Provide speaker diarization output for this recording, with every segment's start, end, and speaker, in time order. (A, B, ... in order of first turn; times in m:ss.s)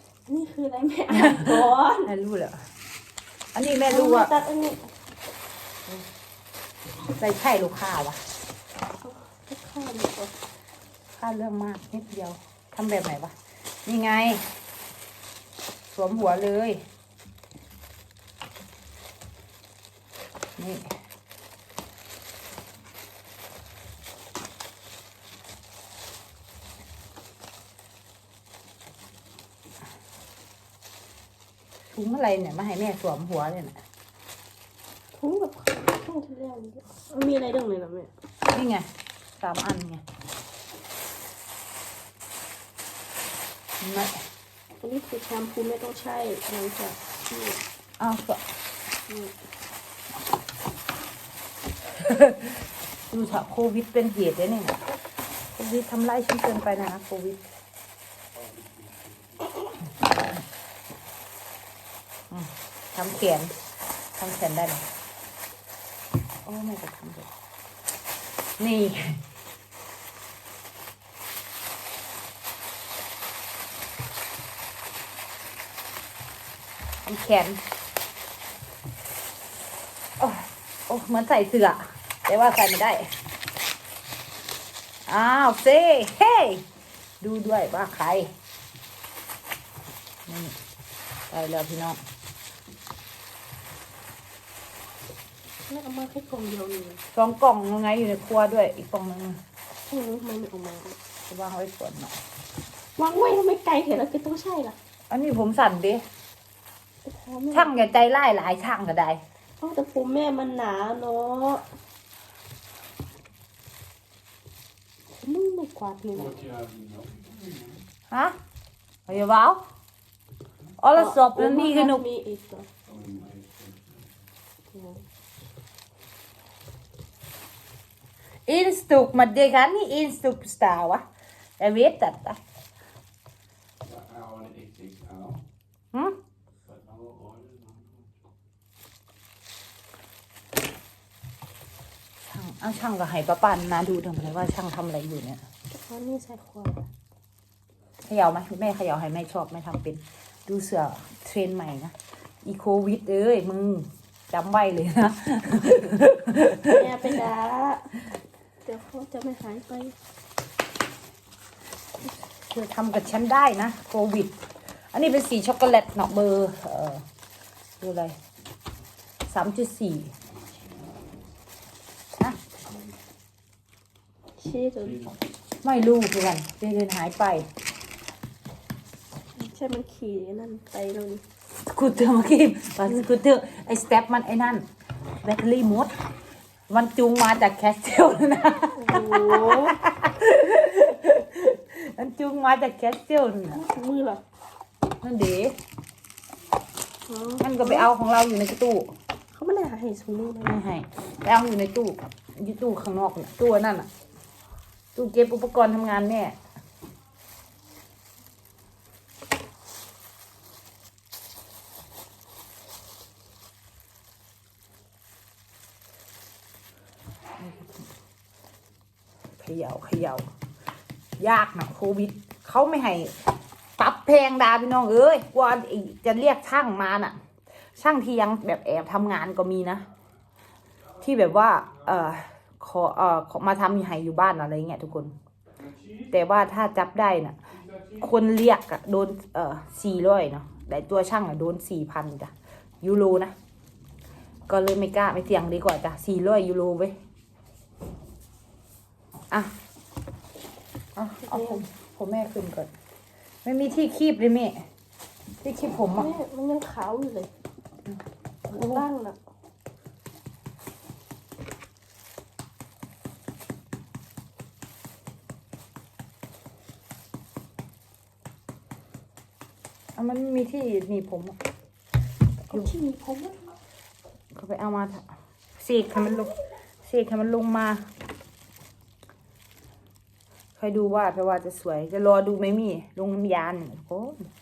0:00.3-0:02.1 A
0:01.1-0:02.7 B
0:03.6-0:04.3 B
0:03.9-0:04.9 A
0:07.2-0:08.2 B
0:09.0-0:10.3 A
0:11.2-0:13.3 B
0:13.9-0:14.5 B
0:15.9-0:16.8 B
0:20.6-0:20.9 B
0:31.9-0:33.8 B
0:35.1-0:38.1 A
0:38.5-0:40.0 B
0:43.8-0:44.2 B
0:44.8-0:47.6 A
0:48.0-0:48.4 B
0:52.0-0:54.8 B
0:55.6-0:57.4 B
0:58.3-0:59.5 C
1:02.3-1:03.5 B
1:04.2-1:04.9 B
1:06.4-1:07.3 B
1:08.6-1:09.2 B
1:17.0-1:17.6 B
1:20.2-1:23.1 B
1:25.1-1:26.7 B
1:27.2-1:28.3 B
1:30.3-1:30.6 B
1:31.3-1:32.0 B
1:35.7-1:37.0 A
1:37.1-1:39.4 B
1:39.9-1:41.0 A
1:41.3-1:42.2 B
1:43.0-1:44.8 A
1:45.1-1:46.0 B
1:47.0-1:47.7 A
1:47.5-1:49.2 B
1:49.6-1:51.7 A
1:55.2-1:56.3 A
1:56.1-1:57.9 C
1:58.1-1:58.4 B
1:59.1-1:59.6 B
2:00.8-2:02.0 B
2:00.9-2:02.7 A
2:02.8-2:04.1 C
2:04.7-2:05.0 A
2:08.5-2:11.0 B
2:11.6-2:12.4 B
2:13.8-2:15.4 C
2:16.6-2:18.2 C
2:22.2-2:25.4 B
2:25.7-2:26.9 A
2:28.1-2:36.8 B
2:36.7-2:37.9 A
2:38.6-2:40.0 A
2:42.5-2:44.4 B
2:44.9-2:47.0 B
2:47.8-2:48.2 B
2:49.3-2:50.1 B
2:50.2-2:51.1 C
2:54.4-2:55.0 A
2:54.8-2:55.2 C
2:55.6-2:57.5 B
2:59.4-3:01.2 A
3:01.6-3:04.7 B
3:05.2-3:05.9 B
3:06.7-3:13.6 B
3:08.8-3:09.8 A
3:13.5-3:14.2 A
3:15.0-3:15.6 B
3:17.1-3:17.9 A
3:17.4-3:18.9 B
3:19.3-3:20.6 A
3:20.4-3:23.9 B
3:25.0-3:26.4 B
3:37.4-3:37.9 B
3:39.4-3:40.3 B
3:41.2-3:43.2 B
3:43.8-3:47.2 B
3:47.8-3:49.9 B
3:51.0-3:55.1 B
3:55.6-3:56.2 C
3:56.1-3:57.4 B
3:57.5-3:58.2 C
3:58.0-4:03.3 B
4:04.5-4:07.0 B
4:11.0-4:12.7 B
4:11.2-4:11.6 A
4:13.4-4:14.6 B
4:15.4-4:16.2 B
4:15.9-4:17.3 A
4:17.9-4:18.8 B
4:18.5-4:19.2 A
4:30.0-4:31.4 B
4:32.5-4:33.6 A
4:34.3-4:36.3 B
4:36.8-4:37.9 B
4:40.6-4:44.3 B